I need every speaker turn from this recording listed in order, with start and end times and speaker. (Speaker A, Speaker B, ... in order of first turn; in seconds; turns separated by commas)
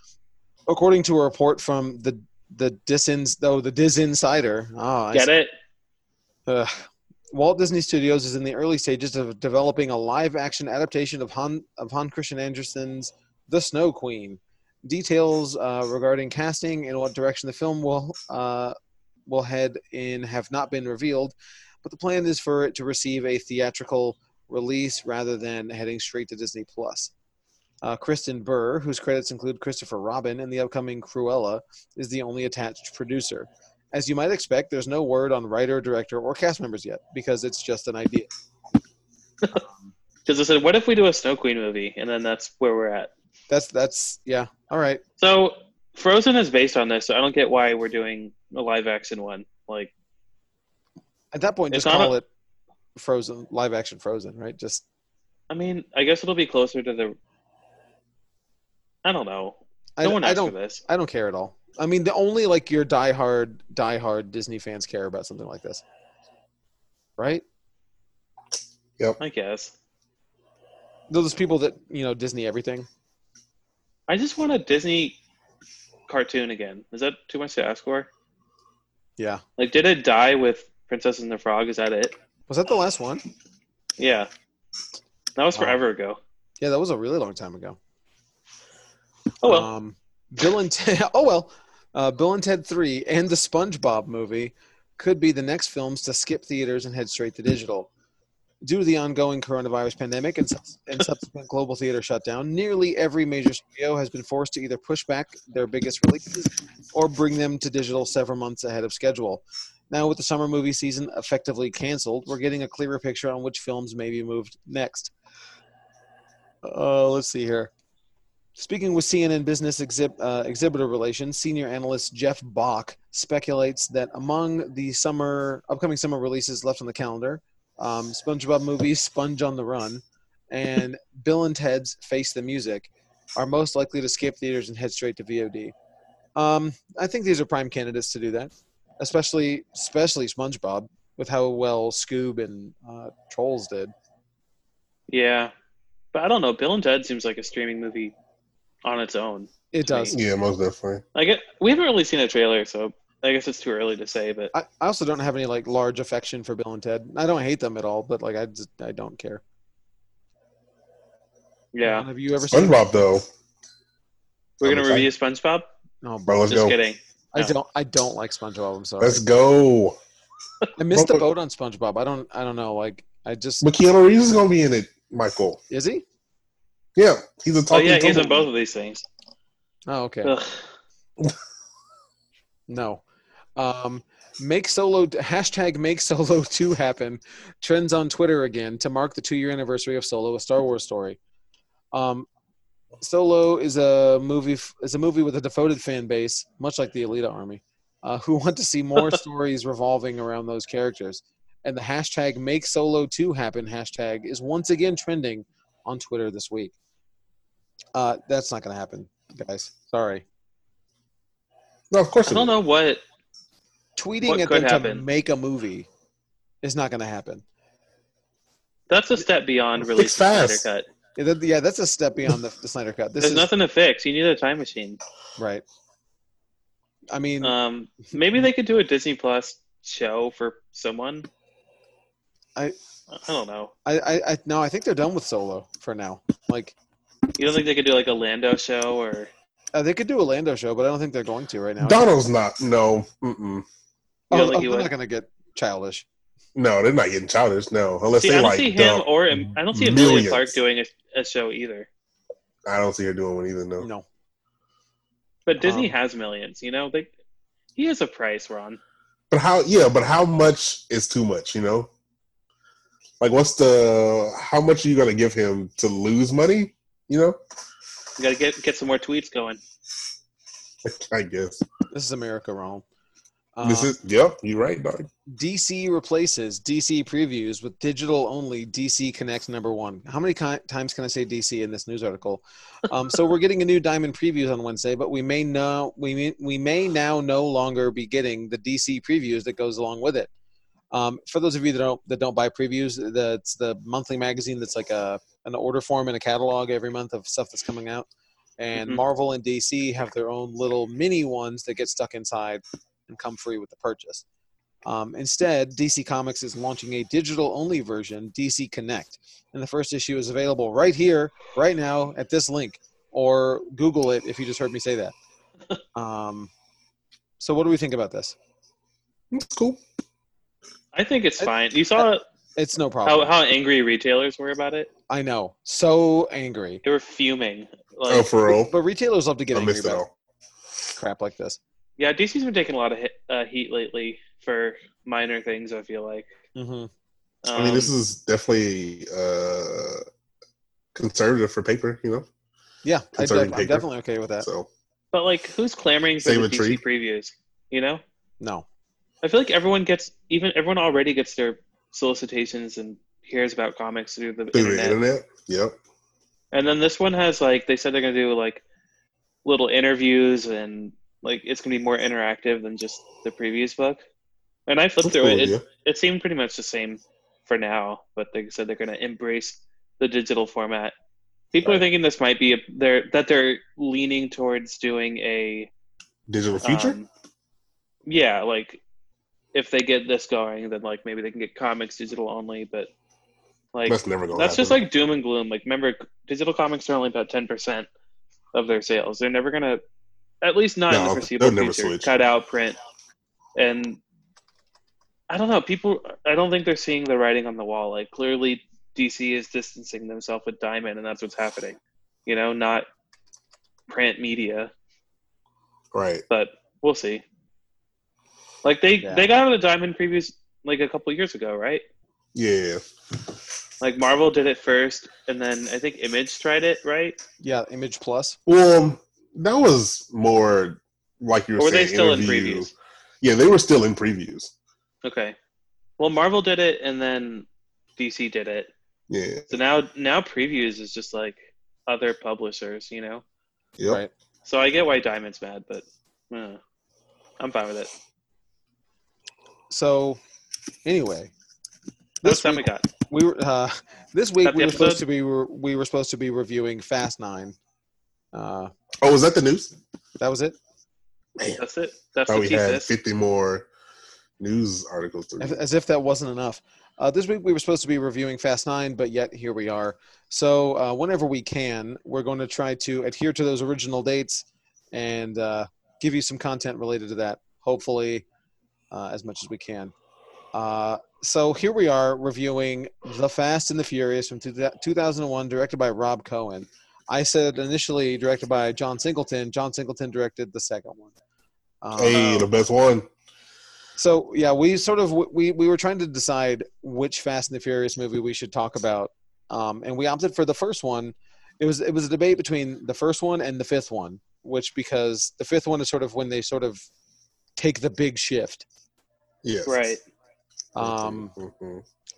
Speaker A: 0.7-5.3, Speaker B: 5.1-5.5, Speaker A: 6.5-18.8, Speaker A: 19.3-27.1, Speaker A: 27.8-38.3, Speaker A: 39.5-39.9, Speaker B: 40.3-43.1, Speaker A: 43.5-45.0, Speaker B: 45.2-49.9, Speaker A: 51.3-52.3, Speaker B: 51.7-52.1, Speaker A: 53.0-54.9, Speaker B: 55.5-57.2, Speaker B: 59.0-60.8, Speaker A: 60.0-65.8, Speaker A: 67.2-67.4, Speaker B: 69.2-69.7, Speaker A: 71.1-72.9, Speaker B: 74.1-75.2, Speaker B: 76.1-78.1, Speaker B: 79.6-82.2, Speaker A: 82.5-83.2, Speaker B: 84.0-84.3, Speaker B: 85.4-86.2, Speaker A: 86.6-87.8, Speaker B: 89.4-89.7, Speaker A: 89.4-97.9, Speaker A: 98.6-115.1, Speaker A: 116.6-117.7, Speaker A: 118.6-135.7, Speaker A: 136.4-143.9, Speaker B: 145.1-145.5, Speaker B: 146.1-148.1, Speaker B: 148.8-150.2, Speaker A: 149.7-150.2, Speaker C: 150.1-151.0, Speaker B: 151.2-154.5, Speaker A: 154.5-159.4, Speaker B: 161.7-162.1, Speaker A: 161.8-162.8, Speaker C: 162.4-163.3, Speaker B: 164.6-165.7, Speaker C: 164.6-165.1, Speaker A: 166.0-166.5, Speaker C: 166.3-166.8, Speaker B: 166.5-167.5, Speaker A: 167.3-169.2, Speaker C: 169.0-170.0, Speaker A: 170.8-173.7, Speaker C: 170.9-171.2, Speaker C: 173.6-175.6, Speaker A: 175.7-176.0, Speaker C: 177.0-178.5, Speaker B: 177.7-179.1, Speaker A: 179.9-180.3, Speaker B: 180.2-180.6, Speaker A: 182.7-183.0, Speaker A: 183.6-191.2, Speaker A: 191.9-192.3, Speaker A: 193.0-206.8, Speaker A: 207.9-210.2, Speaker C: 211.9-212.6, Speaker B: 212.3-213.0, Speaker A: 214.0-215.9, Speaker B: 214.2-215.0, Speaker A: 216.6-217.4, Speaker B: 218.9-220.9, Speaker C: 219.8-220.7, Speaker A: 221.2-223.5, Speaker B: 223.2-225.0, Speaker A: 225.4-225.6, Speaker A: 227.1-227.6, Speaker B: 227.4-231.3, Speaker B: 233.1-233.7, Speaker A: 233.8-236.8, Speaker B: 237.4-239.3, Speaker A: 239.8-242.1, Speaker C: 241.8-243.7, Speaker B: 244.3-244.9, Speaker A: 244.3-246.1, Speaker C: 246.6-250.6, Speaker B: 248.2-251.9, Speaker C: 252.7-253.9, Speaker A: 253.8-254.1, Speaker B: 255.5-257.1, Speaker A: 255.6-256.0, Speaker B: 257.8-258.8, Speaker C: 259.3-261.9, Speaker C: 263.2-267.4, Speaker B: 268.2-269.6, Speaker C: 270.9-271.6, Speaker A: 271.9-272.8, Speaker A: 273.6-273.9, Speaker C: 273.6-275.1, Speaker A: 275.3-290.3, Speaker A: 290.9-298.1, Speaker A: 298.6-304.2, Speaker B: 298.8-299.0, Speaker A: 304.9-315.1, Speaker A: 315.9-316.5, Speaker A: 317.4-318.4, Speaker C: 319.3-319.8, Speaker B: 320.9-322.2, Speaker A: 321.4-323.3, Speaker B: 323.1-324.9, Speaker A: 325.1-326.8, Speaker B: 326.8-328.3, Speaker C: 328.1-328.7, Speaker A: 328.5-330.0, Speaker C: 329.5-330.1, Speaker A: 330.9-331.6, Speaker B: 332.0-336.3, Speaker A: 336.6-336.9, Speaker B: 337.4-337.9, Speaker C: 337.5-340.0, Speaker C: 340.9-342.3, Speaker A: 342.8-344.5, Speaker C: 343.1-343.9, Speaker C: 344.4-344.7, Speaker B: 345.1-348.0, Speaker C: 346.2-346.8, Speaker A: 348.4-348.7, Speaker B: 349.2-355.0, Speaker C: 354.5-355.8, Speaker B: 356.5-358.6, Speaker B: 359.4-364.0, Speaker B: 364.7-370.9, Speaker C: 365.0-365.6, Speaker B: 371.5-375.7, Speaker C: 376.3-377.0, Speaker B: 376.6-377.1, Speaker B: 378.1-378.8, Speaker B: 379.5-382.9, Speaker B: 383.7-387.9, Speaker C: 383.9-384.8, Speaker B: 388.5-389.8, Speaker B: 390.4-392.8, Speaker C: 390.9-392.1, Speaker B: 393.6-394.0, Speaker B: 395.3-402.9, Speaker B: 403.9-404.7, Speaker C: 405.9-406.2, Speaker B: 406.3-407.2, Speaker B: 408.6-411.8, Speaker A: 409.0-409.3, Speaker C: 412.4-412.8, Speaker B: 413.8-417.2, Speaker A: 417.4-418.4, Speaker C: 418.5-422.7, Speaker B: 421.6-422.7, Speaker C: 423.2-424.5, Speaker B: 425.0-425.4, Speaker B: 426.0-427.5, Speaker B: 428.0-428.7, Speaker C: 429.1-429.5, Speaker B: 429.5-433.2, Speaker B: 434.4-436.6, Speaker B: 437.4-437.9, Speaker A: 439.7-440.2, Speaker A: 440.9-441.3, Speaker A: 442.2-447.6, Speaker B: 442.2-442.9, Speaker B: 444.4-445.0, Speaker A: 448.3-448.7, Speaker C: 449.0-449.8, Speaker A: 450.2-450.6, Speaker C: 451.4-451.6, Speaker B: 451.6-452.9, Speaker C: 452.3-453.7, Speaker C: 454.4-455.6, Speaker A: 455.4-468.2, Speaker A: 468.9-469.9, Speaker A: 470.5-481.1, Speaker A: 481.8-482.4, Speaker C: 482.0-483.1, Speaker B: 482.1-482.5, Speaker A: 484.0-496.9, Speaker A: 497.6-498.7, Speaker C: 499.4-500.0, Speaker B: 499.7-500.0, Speaker A: 500.8-501.3, Speaker C: 500.8-501.8